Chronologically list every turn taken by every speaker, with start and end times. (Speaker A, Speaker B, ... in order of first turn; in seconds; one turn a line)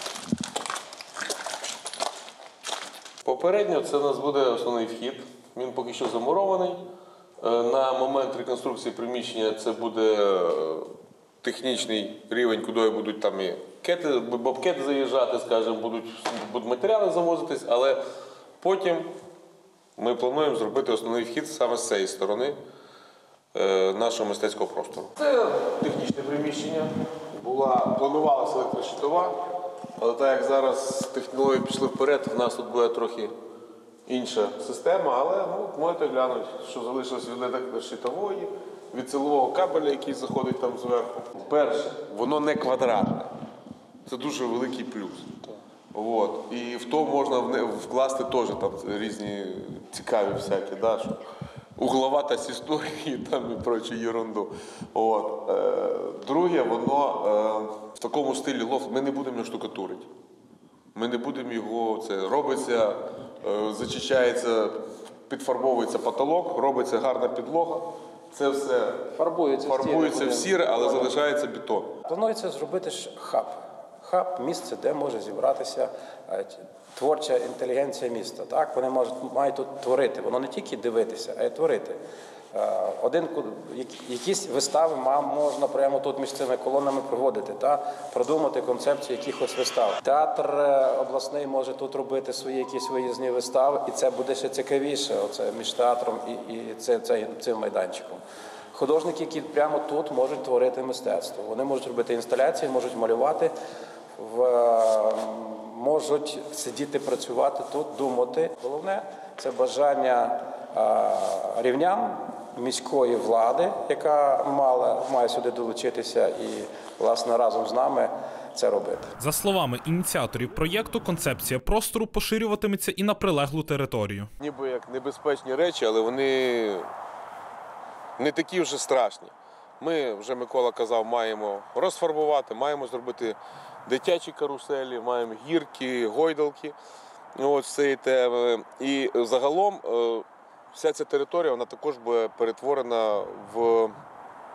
Speaker A: 3.2-6.8
Speaker A: 7.4-18.0
Speaker A: 18.6-19.1
Speaker A: 20.0-22.6
Speaker A: 23.5-29.4
Speaker A: 30.0-33.3
Speaker A: 34.1-43.3
Speaker A: 44.1-51.2
Speaker A: 51.8-60.1
Speaker A: 60.9-69.1
Speaker B: 69.1-71.1
Speaker A: 69.6-72.0
Speaker B: 72.0-82.0
Speaker B: 82.5-98.2
Speaker B: 98.7-103.5
Speaker B: 104.2-119.2
Speaker C: 119.2-124.3
Speaker A: 124.4-126.9
Speaker A: 128.2-136.8
Speaker A: 137.4-143.9